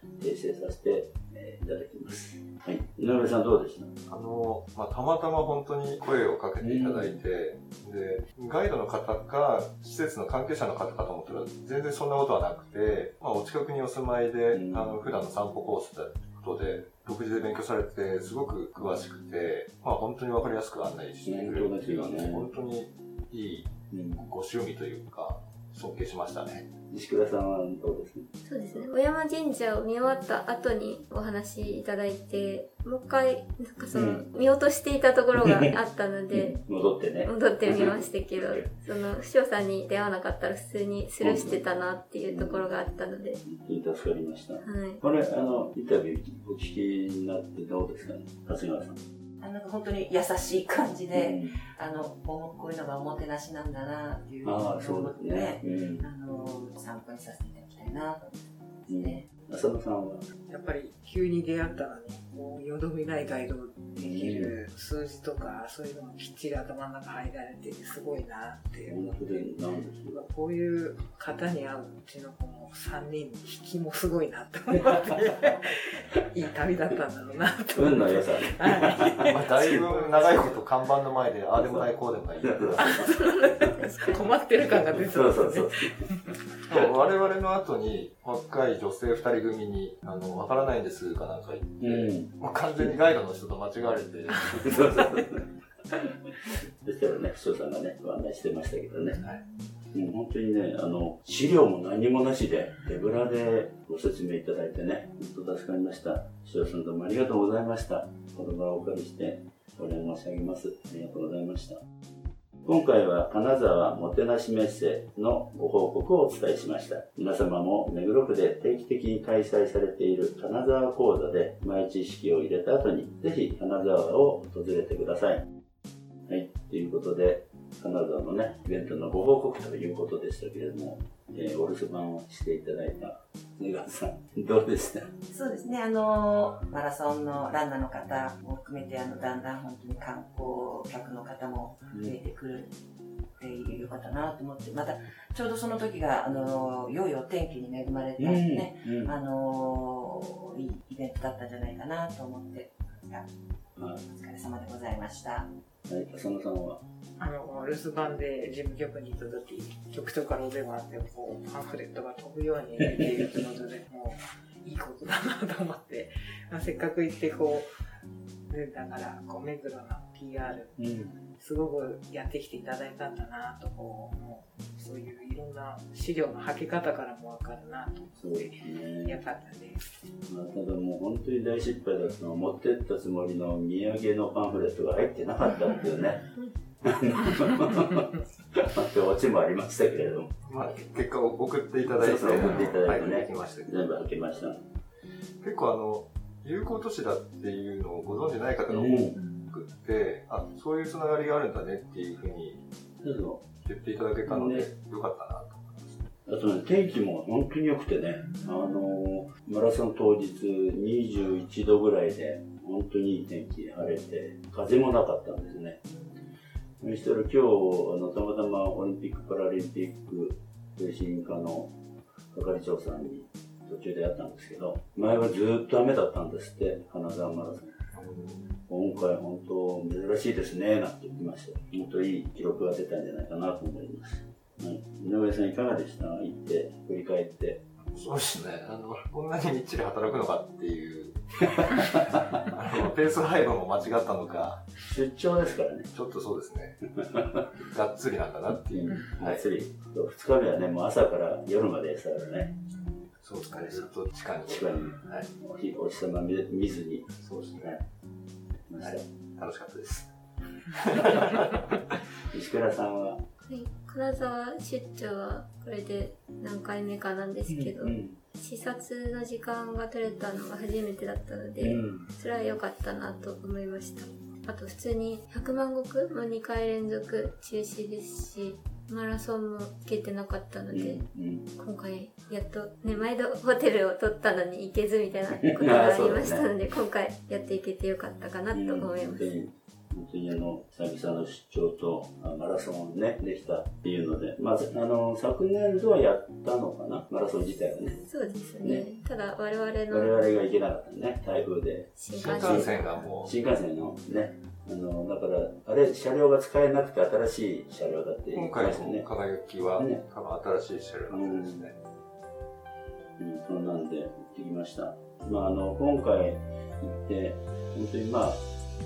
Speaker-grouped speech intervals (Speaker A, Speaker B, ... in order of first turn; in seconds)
Speaker A: 0.2-3.9, 6.6-7.2, 14.5-15.0, 21.2-22.5, 23.9-24.3, 26.9-28.3, 33.9-34.3, 35.4-35.7, 36.3-38.7, 41.2-41.6, 42.3-42.7, 43.4-49.0, 51.1-51.6, 54.4-56.1, 58.9-60.3, 64.0-64.5, 68.8-70.2, 77.7-80.1, 81.6-83.7, 85.0-85.9, 91.8-93.0, 94.4-95.5, 96.8-99.2, 99.9-111.8, 112.6-125.5, 126.3-135.1, 148.2-149.1, 153.8-154.0, 155.9-156.8, 162.8-163.1, 170.8-171.2, 178.2-179.2, 180.3-186.3, 186.8-190.3, 191.9-194.6, 198.7-199.2, 203.0-203.5, 204.3-204.7, 206.3-215.8, 216.8-221.8, 222.3-227.8, 228.7-237.6, 244.9-245.9, 247.0-247.5, 248.7-252.5, 253.5-253.9, 254.5-257.8, 258.7-259.0, 262.3-263.2, 267.5-268.2, 271.6-272.1, 280.7-281.5, 285.3-286.5, 288.5-298.0, 298.6-298.9, 299.9-309.1, 309.8-310.0, 311.1-311.7, 313.2-318.5
Speaker B: 4.1-26.7, 79.2-83.1, 86.7-95.2, 190.4-193.7, 195.4-202.6, 203.7-206.1, 227.9-228.6, 237.9-244.7, 245.9-246.9, 247.6-249.4, 253.2-255.3, 257.2-257.8, 258.8-260.1, 260.7-261.6, 302.1-303.3, 308.3-311.8
Speaker C: 28.5-36.6, 37.2-43.4, 44.6-45.0, 263.5-281.0, 281.6-289.3, 298.1-300.2, 302.0-302.9
Speaker D: 49.4-59.3, 135.3-142.8, 143.4-153.3, 154.0-155.5
Speaker E: 60.5-69.6, 70.1-80.1, 82.8-85.7, 157.2-167.7, 168.5-179.8